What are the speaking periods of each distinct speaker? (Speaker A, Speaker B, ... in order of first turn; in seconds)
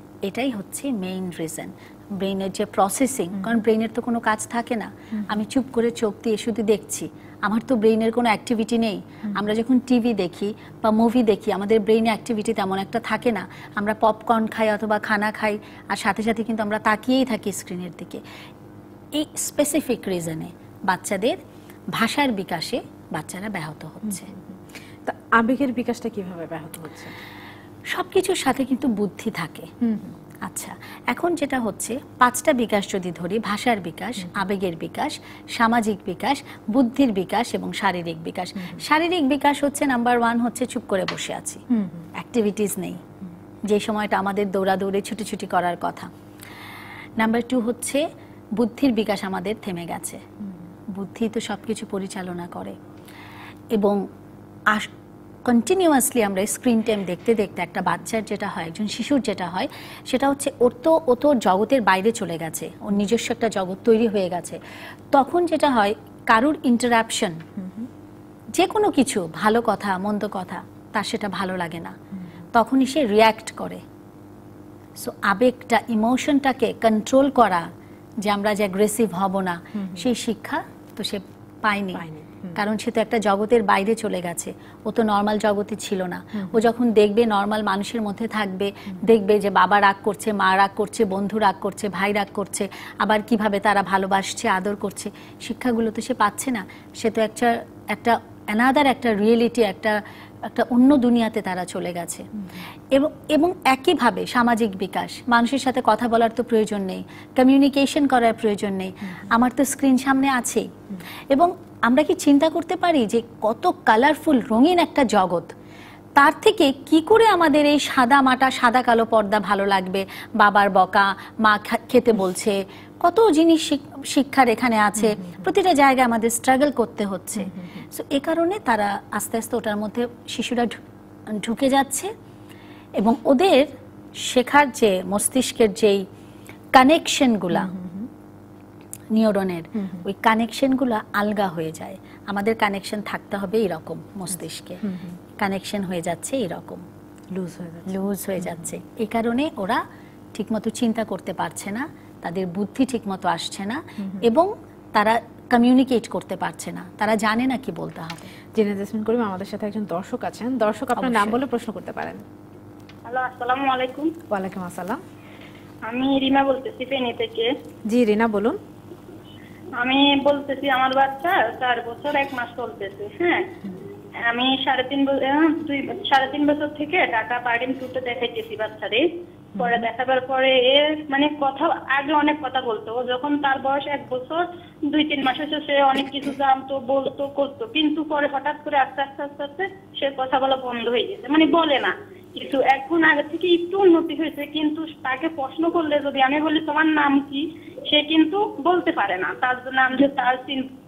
Speaker A: 0.2-18.2, 19.1-21.4, 21.9-24.3, 27.9-29.7, 30.4-41.6, 42.1-43.0, 43.7-46.1, 47.2-48.0, 48.6-50.2, 50.9-52.8, 53.7-54.0, 55.5-64.6, 65.1-67.4, 68.5-72.0, 72.5-73.8, 75.0-77.7, 78.2-82.0, 82.6-102.3, 102.9-110.7, 111.3-115.5, 116.2-130.8, 131.3-132.1, 133.0-136.1, 136.7-137.7, 139.1-144.8, 145.4-146.9, 147.9-149.8, 150.3-158.3, 161.0-161.4
Speaker B: 5.1-5.4, 24.1-24.4, 25.1-27.1, 29.8-30.1, 41.7-42.1, 67.6-67.9, 79.8-80.1, 82.0-82.6, 86.3-86.6, 125.0-125.5, 127.5-127.8, 137.5-138.1, 139.8-140.0, 144.8-145.2, 147.3-148.7, 154.0-154.3, 158.5-162.2, 164.3-165.0, 167.9-168.6, 179.6-179.8
Speaker C: 163.1-164.2, 165.8-167.5, 169.8-173.5, 174.2-200.7